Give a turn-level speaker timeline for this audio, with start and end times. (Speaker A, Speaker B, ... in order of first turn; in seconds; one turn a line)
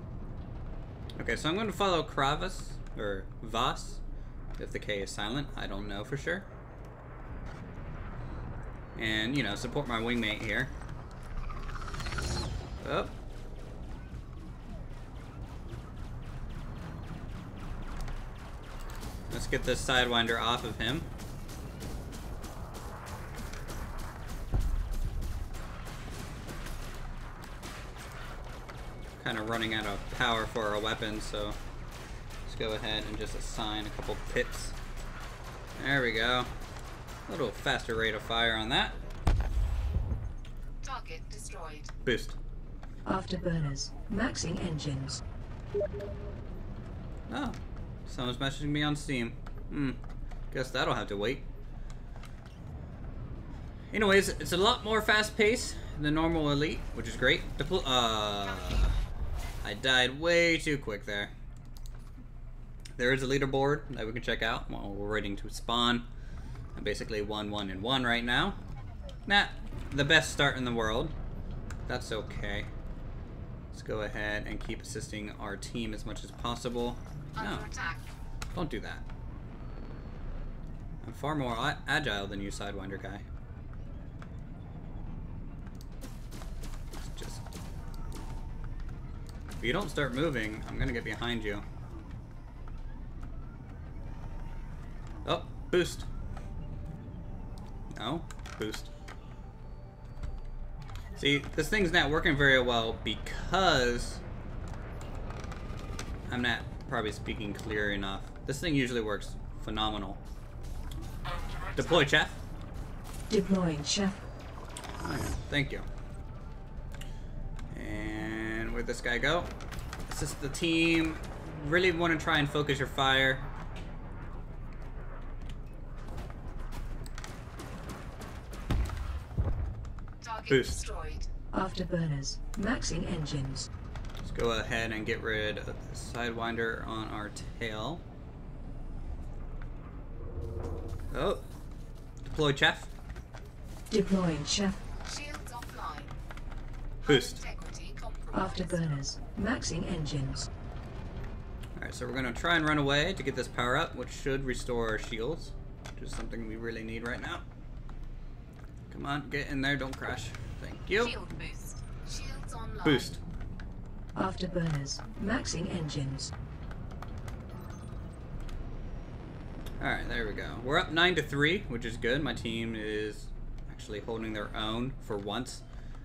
Speaker A: 1.2-4.0
Speaker A: 4.6-6.5
Speaker A: 8.9-10.7
Speaker A: 12.8-13.1
Speaker A: 19.3-21.1
Speaker A: 29.2-31.6
Speaker A: 32.5-34.8
Speaker A: 35.8-36.5
Speaker A: 37.3-39.0
Speaker B: 40.8-41.9
Speaker A: 42.0-42.4
Speaker C: 43.0-45.2
Speaker A: 47.3-50.0
Speaker A: 50.5-51.5
Speaker A: 53.9-59.0
Speaker A: 59.6-61.3
Speaker A: 63.0-66.1
Speaker A: 66.7-68.6
Speaker A: 69.3-71.1
Speaker A: 71.9-72.7
Speaker A: 73.7-77.7
Speaker B: 77.4-78.1
Speaker A: 78.5-79.1
Speaker A: 81.0-83.2
Speaker A: 87.0-87.4
Speaker A: 89.6-91.7
Speaker A: 95.2-96.1
Speaker A: 97.9-98.9
Speaker A: 101.2-104.2
Speaker A: 106.3-110.2
Speaker A: 111.8-112.4
Speaker C: 113.3-114.2
Speaker A: 115.0-115.9
Speaker A: 117.7-119.5
Speaker A: 120.1-123.5
Speaker B: 130.2-131.3
Speaker A: 130.5-130.8
Speaker C: 131.5-133.7
Speaker A: 134.2-138.1
Speaker A: 141.1-141.4
Speaker A: 142.2-142.9
Speaker C: 143.9-144.8
Speaker B: 145.0-146.2
Speaker B: 147.0-149.1
Speaker A: 147.1-147.4
Speaker C: 149.0-150.5
Speaker A: 151.8-157.4
Speaker A: 158.9-161.2
Speaker B: 161.0-163.2
Speaker A: 162.8-163.2
Speaker C: 164.2-166.3
Speaker A: 169.8-175.7